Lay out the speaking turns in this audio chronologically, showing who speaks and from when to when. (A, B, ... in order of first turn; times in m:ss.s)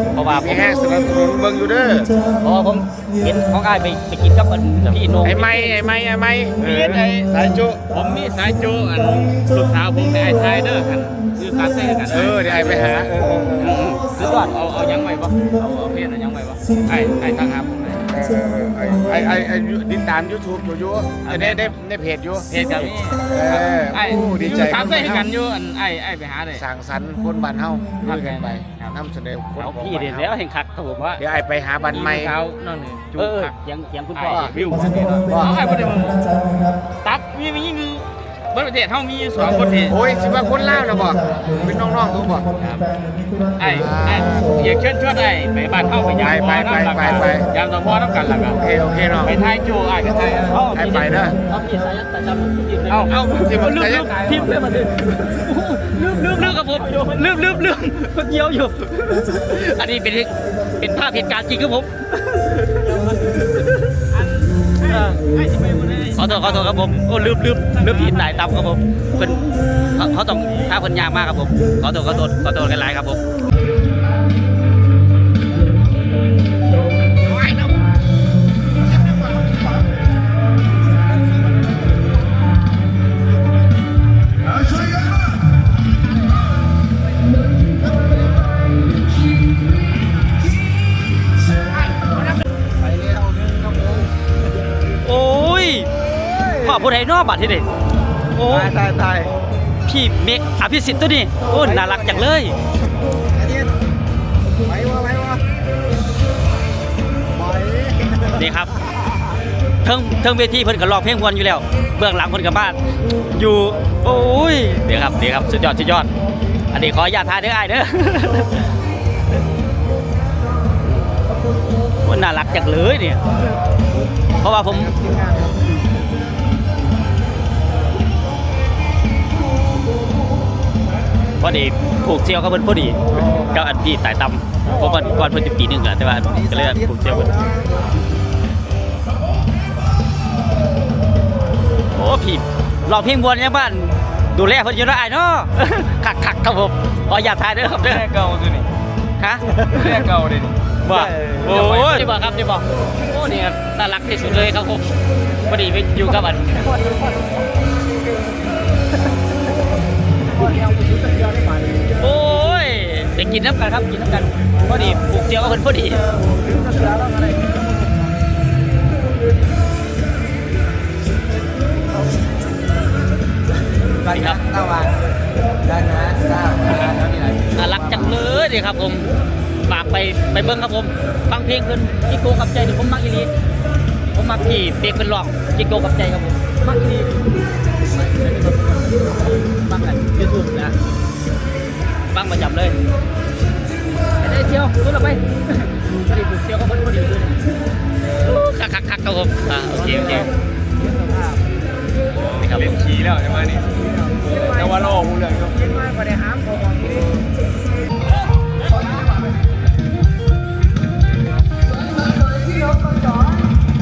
0:00.1-0:00.7 A
0:00.3-0:02.1 B
0:02.4-0:05.8 A
0:05.2-0:07.8 B
0:06.6-0:07.3 C
0:07.9-0:12.7 C
0:12.1-0:13.7 B
0:13.6-0:14.5 A
0:13.6-0:18.0 C
0:18.1-0:22.5 B
0:21.2-0:21.7 C
0:22.5-0:26.6 C
0:23.3-0:25.3 B
0:26.5-0:30.3 B
0:28.0-0:28.9 C
0:29.6-0:31.2 A
0:31.2-0:32.4 B
0:31.9-0:33.6 C
0:33.1-0:34.5 A
0:34.1-0:36.2 C
0:34.3-0:34.6 B
0:35.3-0:35.6 B
0:37.0-0:40.0 C
0:39.9-0:42.5 B
0:42.6-0:42.9 C
0:43.6-0:48.6 C
0:43.7-0:44.5 B
0:46.1-0:47.5 B
0:48.5-0:49.4 B
0:49.2-0:50.6 C
0:50.5-1:02.8 A
0:50.7-0:51.4 B
0:52.9-0:53.2 C
0:53.1-0:54.3 B
0:53.9-0:54.5 C
1:02.9-1:03.2 C
1:04.1-1:08.4 C
1:06.2-1:09.4 A
1:09.9-1:13.2 A
1:35.0-1:35.9 A
1:36.6-1:37.7 A
1:38.3-1:38.7 A
1:38.8-1:39.3 B
1:39.8-1:42.5 A
1:44.7-1:45.4 B
1:48.3-1:48.7 A
1:49.8-1:52.8 A
1:53.3-1:56.1 A
1:56.7-1:58.6 A
2:02.0-2:03.2 A
2:04.4-2:04.9 A
2:11.4-2:17.4 A
2:21.9-2:28.0 A
2:27.8-2:28.6 C
2:29.2-2:29.5 A
2:29.7-2:32.3 C
2:30.8-2:34.8 A
2:35.5-2:36.7 A
2:40.6-2:41.6 C
2:42.0-2:46.0 A
2:54.0-2:54.4 A
2:54.4-2:54.8 B
2:55.8-2:56.5 B
2:57.5-2:59.1 A
2:59.6-3:03.3 A
3:04.1-3:07.1 A
3:08.0-3:10.7 A
3:12.1-3:12.8 A
3:14.2-3:17.4 A
3:18.1-3:20.3 A
3:20.0-3:20.2 C
3:22.2-3:25.8 C
3:22.3-3:22.7 A